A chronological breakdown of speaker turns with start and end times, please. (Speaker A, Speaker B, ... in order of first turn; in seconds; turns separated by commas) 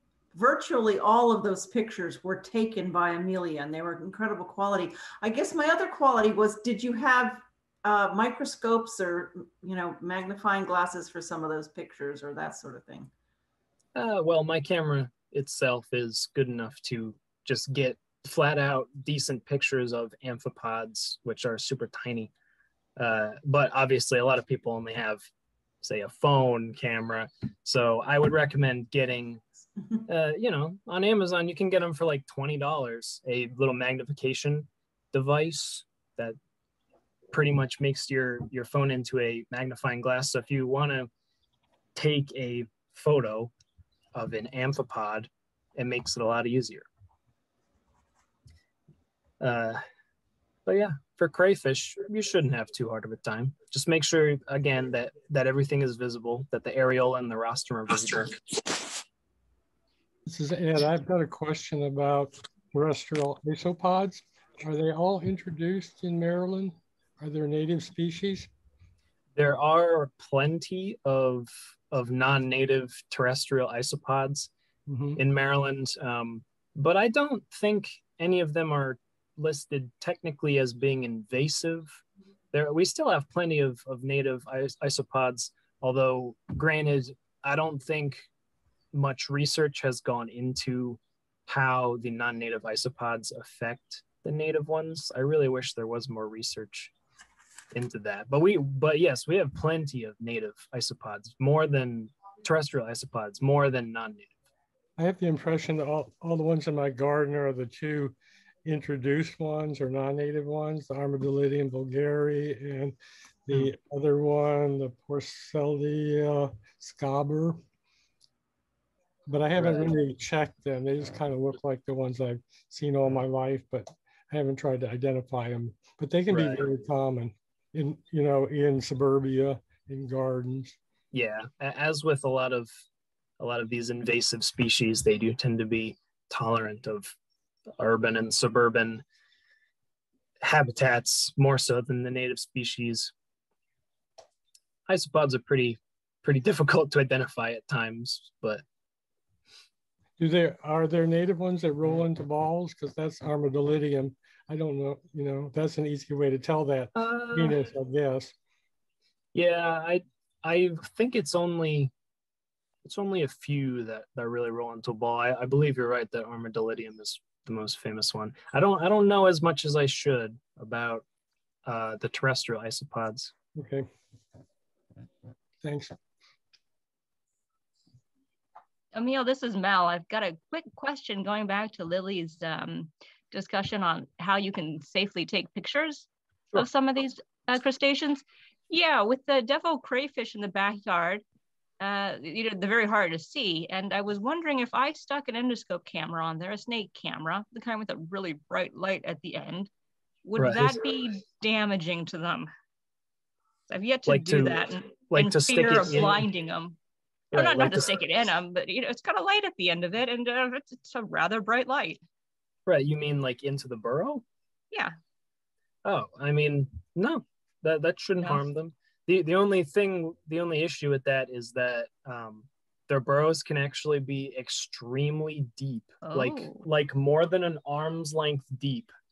Speaker A: 0.3-13.1, Speaker B: 13.9-22.3, Speaker B: 23.0-25.2, Speaker B: 25.8-29.4, Speaker B: 30.1-36.4, Speaker B: 37.3-41.1, Speaker B: 42.0-43.5, Speaker B: 44.1-46.9, Speaker B: 49.4-49.8, Speaker B: 50.7-58.4, Speaker C: 60.3-68.5, Speaker B: 69.4-74.5, Speaker C: 74.9-75.2, Speaker B: 75.2-82.0, Speaker B: 82.5-88.3, Speaker B: 88.9-96.9, Speaker B: 97.7-104.3, Speaker C: 105.0-117.6, Speaker C: 119.3-130.8, Speaker B: 119.6-120.0, Speaker B: 126.3-126.7, Speaker B: 131.1-132.7, Speaker B: 133.4-137.2, Speaker B: 137.8-139.0, Speaker B: 140.4-143.1, Speaker B: 144.9-148.6, Speaker C: 150.2-158.3, Speaker B: 157.0-157.6, Speaker B: 159.3-161.9, Speaker B: 162.8-171.1, Speaker B: 171.7-173.3, Speaker C: 173.6-173.9, Speaker C: 175.6-176.0, Speaker D: 178.9-191.2, Speaker D: 191.8-199.7, Speaker D: 200.2-202.5, Speaker B: 200.4-200.8, Speaker D: 203.7-206.8, Speaker B: 204.1-206.3, Speaker B: 207.3-208.0, Speaker D: 207.3-212.0, Speaker B: 212.7-214.2, Speaker B: 215.8-228.9, Speaker D: 226.0-226.7